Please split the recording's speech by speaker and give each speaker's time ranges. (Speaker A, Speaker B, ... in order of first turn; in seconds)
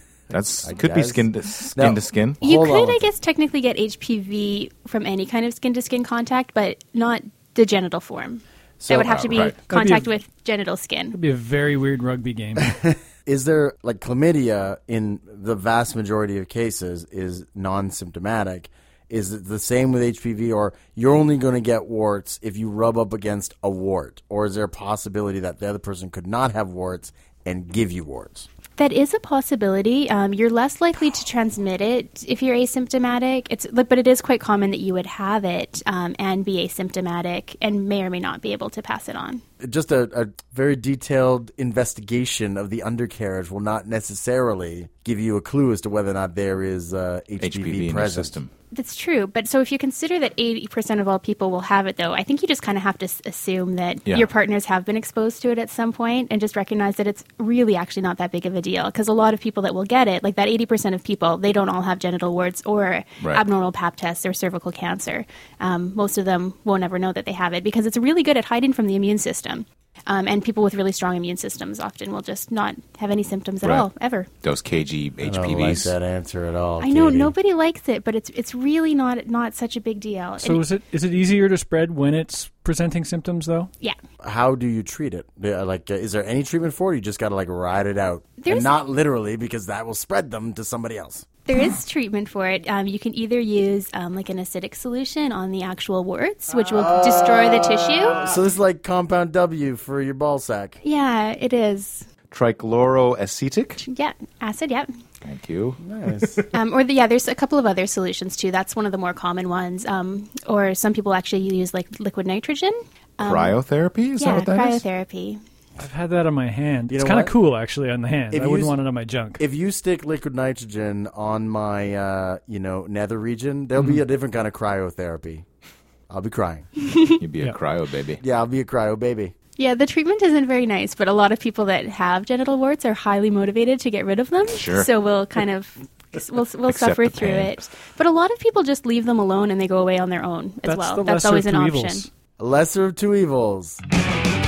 Speaker A: 0.3-2.4, 9.0-9.6, 47.4-48.5, 74.4-75.9, 102.3-103.8, 105.2-105.8, 113.2-114.8, 127.2-128.2, 134.5-134.9, 136.7-137.7
Speaker B: 0.6-3.0, 8.8-9.3, 12.7-28.5, 39.6-48.4, 75.2-77.3, 84.2-91.3, 96.7-100.8, 105.8-106.5, 116.9-117.3, 118.3-118.8, 119.4-125.5, 126.1-126.7, 128.2-129.3, 142.4-143.8
Speaker C: 2.4-11.2, 28.8-39.4, 48.7-74.3, 76.8-80.6, 88.4-88.7, 91.5-98.2, 100.8-102.1, 103.8-104.9, 106.5-113.6, 114.2-115.4, 126.9-127.2, 129.6-142.1
Speaker D: 9.7-10.1, 11.1-12.8, 80.4-83.7, 115.8-119.4, 140.7-142.1